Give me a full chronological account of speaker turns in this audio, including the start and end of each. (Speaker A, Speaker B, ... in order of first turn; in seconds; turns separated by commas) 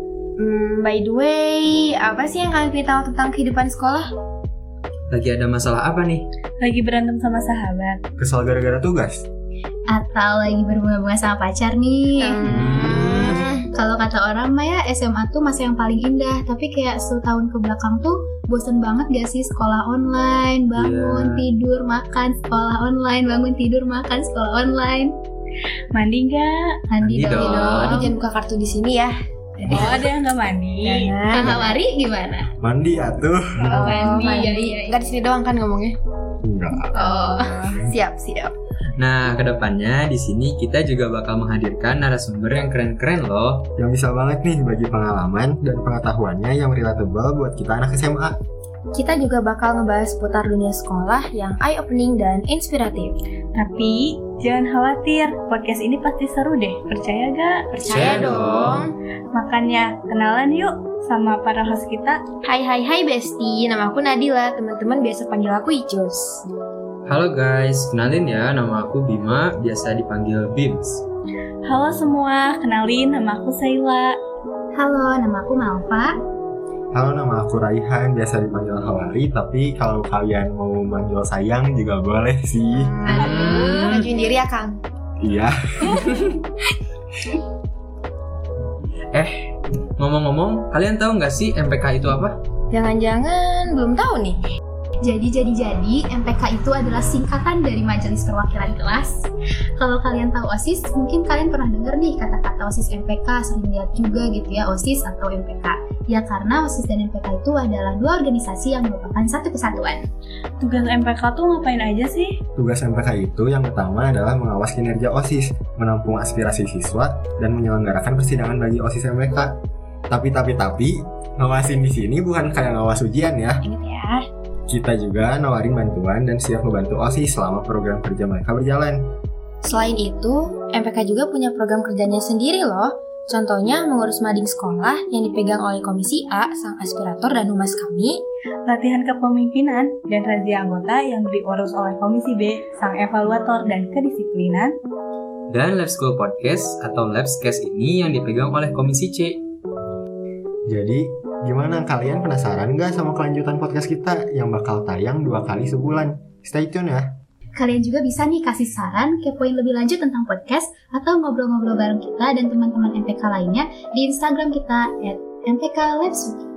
Speaker A: 0.4-4.1, Speaker B: 5.1-6.2, Speaker C: 6.6-8.0, Speaker D: 8.2-9.2, Speaker E: 9.9-12.7, Speaker A: 12.2-13.7, Speaker B: 12.5-13.4, Speaker E: 13.7-25.1, Speaker B: 20.8-21.4, Speaker C: 25.9-26.8, Speaker E: 26.9-28.2, Speaker B: 27.0-28.1, Speaker A: 27.3-29.1, Speaker E: 29.6-30.0, Speaker C: 29.6-31.1, Speaker A: 29.7-30.0, Speaker A: 30.8-31.6, Speaker E: 31.3-32.5, Speaker D: 31.4-31.7, Speaker D: 32.6-33.9, Speaker A: 33.6-36.0, Speaker E: 33.7-35.0, Speaker D: 36.4-37.1, Speaker E: 36.9-37.9, Speaker A: 37.9-38.5, Speaker B: 39.0-43.7, Speaker D: 43.8-48.4, Speaker A: 48.9-53.2, Speaker C: 53.5-58.2, Speaker A: 57.8-58.9, Speaker B: 57.9-58.9, Speaker C: 59.3-62.3, Speaker A: 62.4-66.4, Speaker B: 67.0-71.0, Speaker C: 71.6-74.2, Speaker E: 74.8-76.2, Speaker D: 76.9-83.0, Speaker A: 82.7-84.8, Speaker B: 83.1-83.9, Speaker E: 83.1-84.0, Speaker D: 85.2-86.3, Speaker B: 89.1-92.4, Speaker A: 92.7-94.4, Speaker E: 95.0-110.1, Speaker C: 110.6-112.4, Speaker D: 112.5-123.6, Speaker A: 123.6-124.2, Speaker D: 124.7-129.1, Speaker A: 129.6-138.2, Speaker C: 138.7-144.8, Speaker B: 145.5-149.4, Speaker D: 150.7-157.2, Speaker E: 157.5-166.4